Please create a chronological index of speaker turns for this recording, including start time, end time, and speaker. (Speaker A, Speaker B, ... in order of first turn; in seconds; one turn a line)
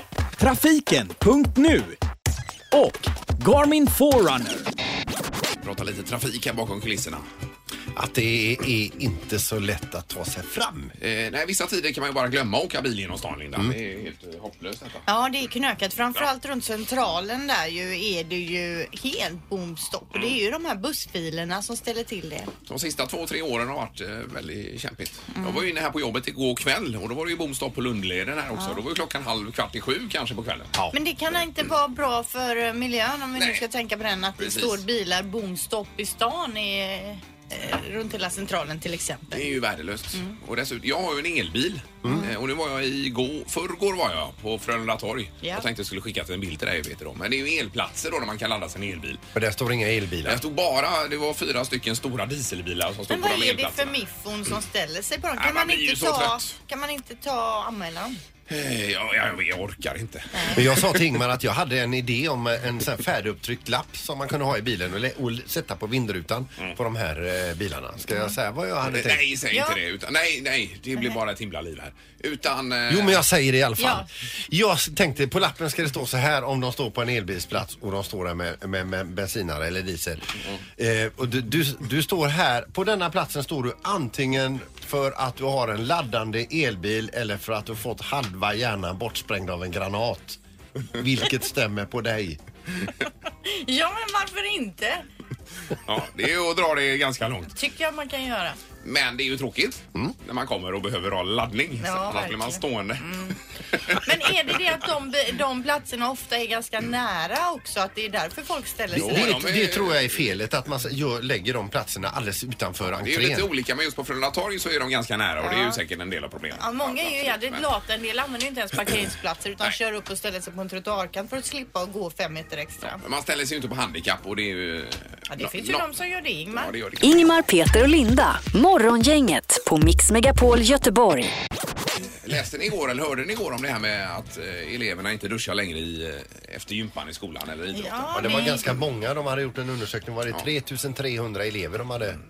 Speaker A: 0.4-1.9
Speaker A: 2.7-4.6
Speaker B: 5.6-7.2
Speaker C: 7.9-10.9
Speaker B: 11.0-15.0
Speaker D: 15.1-22.5
Speaker B: 22.7-30.8
Speaker D: 25.3-25.7
Speaker D: 28.5-28.8
Speaker D: 30.9-39.5
Speaker B: 33.4-33.6
Speaker B: 34.4-34.8
Speaker B: 39.3-49.2
Speaker D: 42.0-42.3
Speaker C: 49.3-50.4
Speaker B: 50.2-53.9
Speaker D: 53.1-58.2
Speaker B: 55.4-56.5
Speaker B: 58.5-61.0
Speaker C: 60.5-69.3
Speaker B: 68.8-73.2
Speaker D: 69.5-69.8
Speaker C: 72.9-90.4
Speaker D: 73.8-74.0
Speaker C: 90.9-92.4
Speaker D: 93.4-95.0
Speaker B: 95.8-97.5
Speaker D: 97.5-98.6
Speaker B: 98.8-104.0
Speaker D: 101.8-103.4
Speaker D: 103.9-109.3
Speaker B: 108.9-110.2
Speaker C: 108.9-113.5
Speaker B: 112.8-117.7
Speaker D: 115.4-115.8
Speaker D: 116.6-123.0
Speaker B: 122.8-125.8
Speaker D: 125.3-126.7
Speaker B: 126.5-127.3
Speaker E: 127.0-131.3
Speaker B: 132.2-138.6
Speaker D: 137.7-138.8
Speaker C: 138.1-142.2